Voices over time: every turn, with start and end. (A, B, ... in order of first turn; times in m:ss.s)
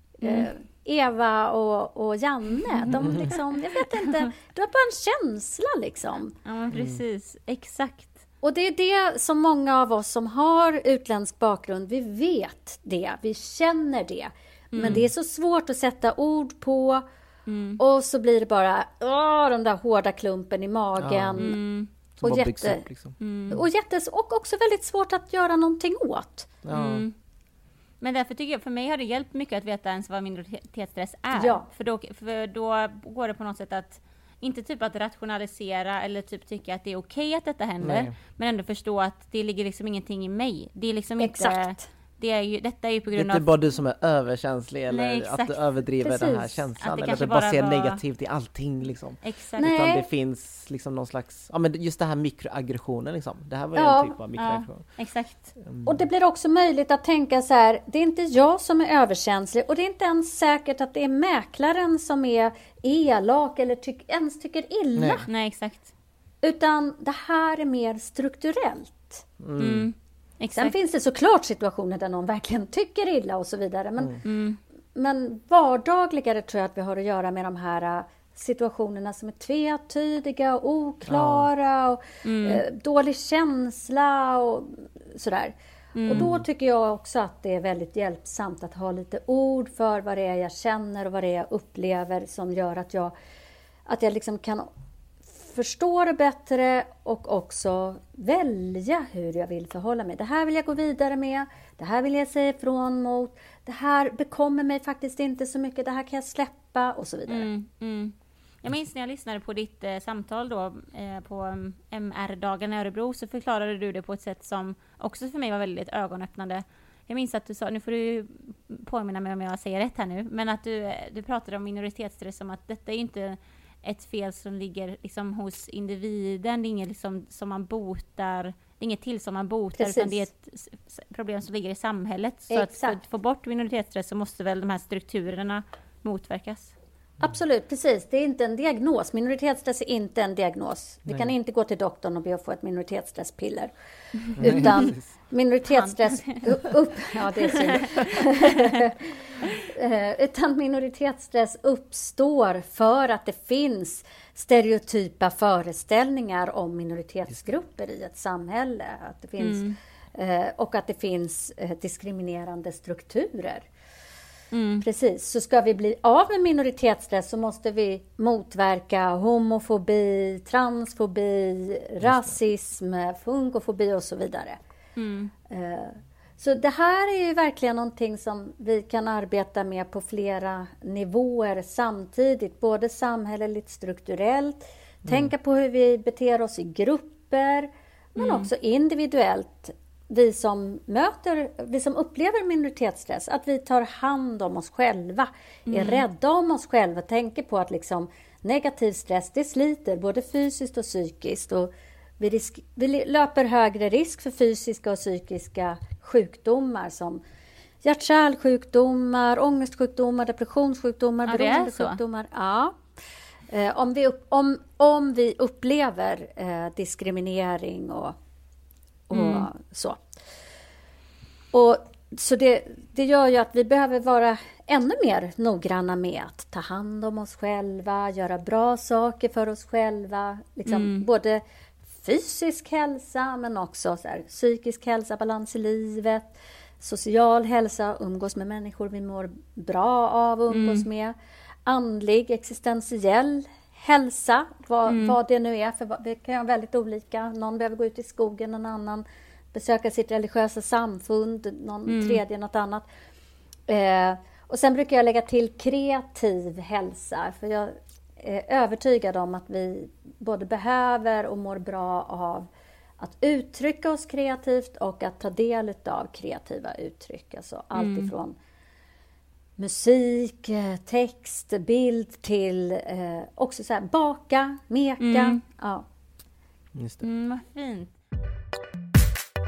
0:00.2-0:06.3 A
0:00.2-0:00.5 B
0:02.9-0:03.3 B
0:06.4-0:08.2 B
0:06.7-0:07.0 C
0:08.4-0:17.0 A
0:14.7-0:15.0 B
0:17.5-0:17.8 B
0:17.8-0:21.6 A
0:21.0-0:21.4 C
0:21.4-0:21.9 B
0:22.2-0:23.5 C
0:22.2-0:22.8 A
0:23.2-0:23.6 B
0:23.5-0:26.6 A
0:26.6-0:27.1 C
0:26.7-0:27.1 B
0:28.0-0:43.4 B
0:31.3-0:31.6 A
0:37.8-0:38.1 C
0:41.2-0:41.9 A
0:43.1-0:54.8 C
0:44.9-0:45.6 B
0:46.0-0:46.6 A
0:46.8-0:48.0 B
0:49.2-0:49.7 B
0:49.6-0:50.1 A
0:53.7-0:54.2 A
0:54.3-0:55.5 B
0:55.6-0:56.0 C
0:55.8-1:05.3 A
1:05.0-1:05.2 C
1:05.3-1:05.9 B
1:06.4-1:09.2 A
1:09.4-1:09.9 C
1:09.6-1:10.7 B
1:10.6-1:14.2 A
1:14.2-1:14.6 B
1:14.9-1:25.5 A
1:21.1-1:21.5 C
1:22.2-1:22.6 B
1:26.0-1:26.2 B
1:26.0-1:33.1 A
1:26.1-1:26.4 C
1:33.8-1:34.7 A
1:35.4-1:47.5 A
1:47.3-2:16.7 B
2:09.8-2:10.2 A
2:12.5-2:13.0 A
2:17.2-2:23.7 A
2:24.4-2:24.8 B
2:24.4-2:43.6 A
2:24.4-2:25.1 C
2:25.7-2:26.5 B
2:27.5-2:28.8 B
2:39.4-2:39.8 B
2:44.5-2:44.8 B
2:44.8-2:54.6 A
2:55.0-2:55.3 B
2:55.5-3:27.2 A
3:05.0-3:05.3 C
3:08.2-3:08.5 B
3:15.7-3:16.0 B
3:27.8-3:32.8 A
3:31.2-3:32.0 B
3:33.5-3:38.2 A
3:39.1-3:40.0 A
3:39.1-3:39.5 B
3:41.5-4:01.1 A
3:50.6-3:51.0 B
4:00.5-4:00.8 B
4:01.6-4:12.8 A
4:04.9-4:05.2 B
4:11.9-4:12.2 B
4:13.7-4:22.5 A
4:23.0-4:28.3 A
4:27.7-4:28.1 B
4:29.6-4:35.8 A
4:35.0-4:35.4 B
4:36.7-4:37.0 C
4:37.0-4:37.9 B